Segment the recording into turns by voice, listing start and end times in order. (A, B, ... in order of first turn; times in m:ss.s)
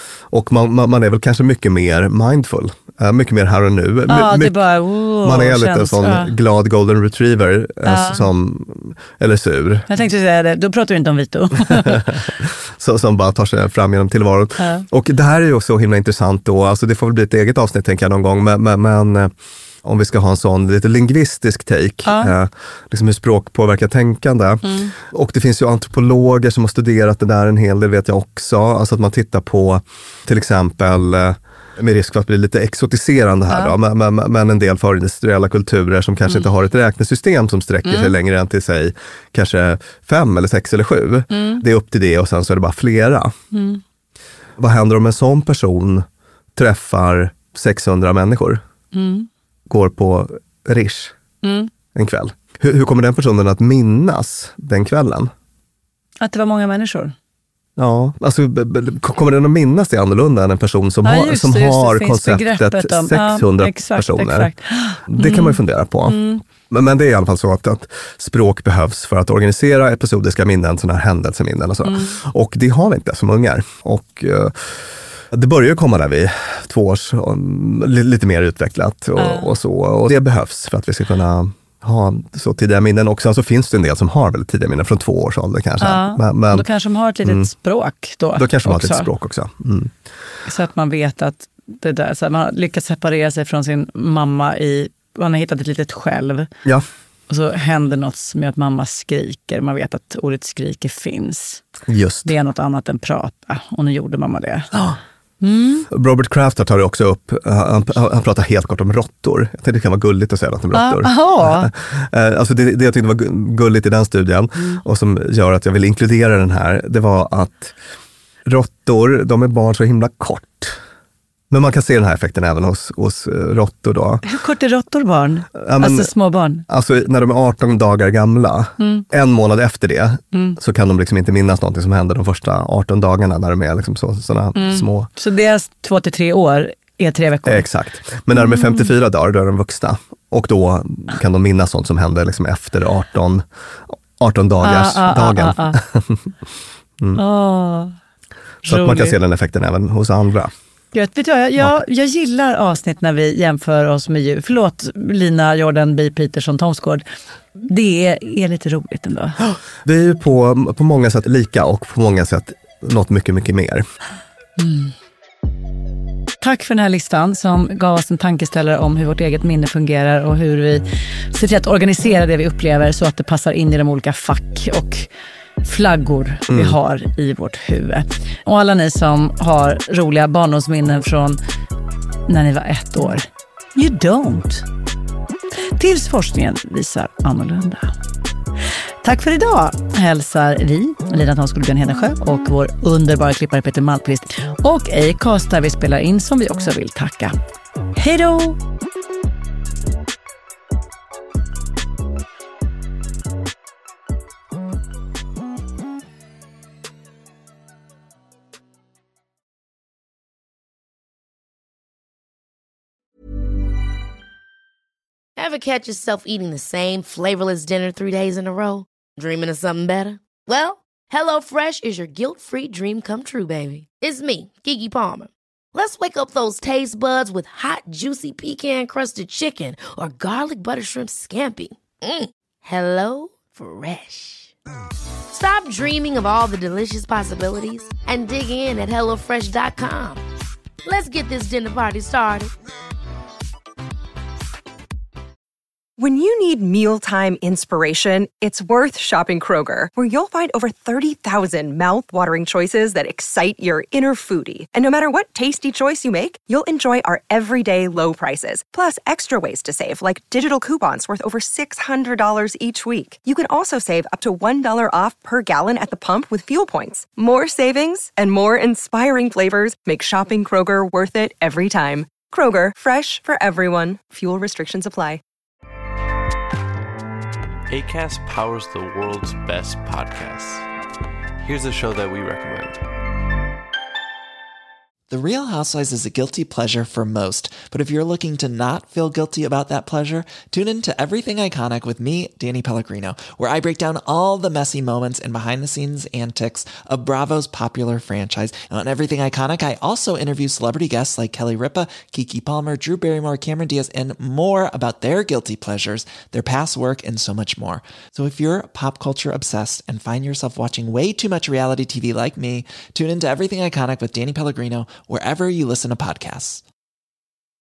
0:00.3-0:04.6 A
0:04.1-0:06.4 B
0:05.2-0:09.9 A
0:07.8-0:08.3 B
0:09.9-0:12.2 B
0:11.7-0:19.3 A
0:14.6-0:14.9 B
0:19.8-0:43.4 A
0:22.0-0:22.3 B
0:24.6-0:24.9 B
0:33.5-0:33.8 B
0:37.9-0:38.2 B
0:41.3-0:41.6 B
0:43.5-0:43.8 B
0:44.6-0:48.6 A
0:48.9-0:49.3 B
0:49.7-0:51.1 A
0:51.4-0:51.7 B
0:51.9-0:55.3 A
0:56.2-0:57.1 B
0:57.8-1:04.5 A
1:01.0-1:06.4 B
1:05.1-1:14.7 A
1:11.8-1:12.2 B
1:15.3-1:26.7 A
1:19.2-1:19.5 B
1:25.8-1:29.1 B
1:27.2-1:27.5 A
1:28.4-1:29.9 A
1:30.5-1:36.5 B
1:37.3-1:41.6 B
1:41.9-1:42.3 A
1:42.2-1:44.7 B
1:45.4-1:45.9 B
1:45.9-1:57.8 A
1:50.7-1:51.7 B
1:58.4-2:00.8 A
2:01.5-2:04.2 A
2:04.2-2:06.6 B
2:05.6-2:06.1 A
2:06.7-2:15.1 A
2:08.8-2:09.0 B
2:10.3-2:10.6 B
2:14.6-2:17.7 B
2:17.4-2:26.2 A
2:18.4-2:18.9 B
2:24.6-2:25.8 B
2:27.2-2:27.9 B
2:28.6-2:29.2 B
2:28.7-2:30.5 A
2:30.9-2:37.0 B
2:37.6-2:39.4 B
2:39.4-2:43.8 A
2:44.6-2:44.9 B
2:46.4-2:55.1 B
2:55.6-3:01.4 B
2:56.5-2:56.8 A
3:02.3-3:04.7 B
3:05.8-3:07.9 B
3:09.0-3:17.3 B
3:18.0-3:18.6 B
3:35.4-3:54.5 C
3:55.3-4:00.2 C
4:00.8-4:02.5 C
4:06.0-4:35.2 D
4:37.7-4:40.7 E
4:41.4-4:42.8 E
4:45.1-5:16.6 F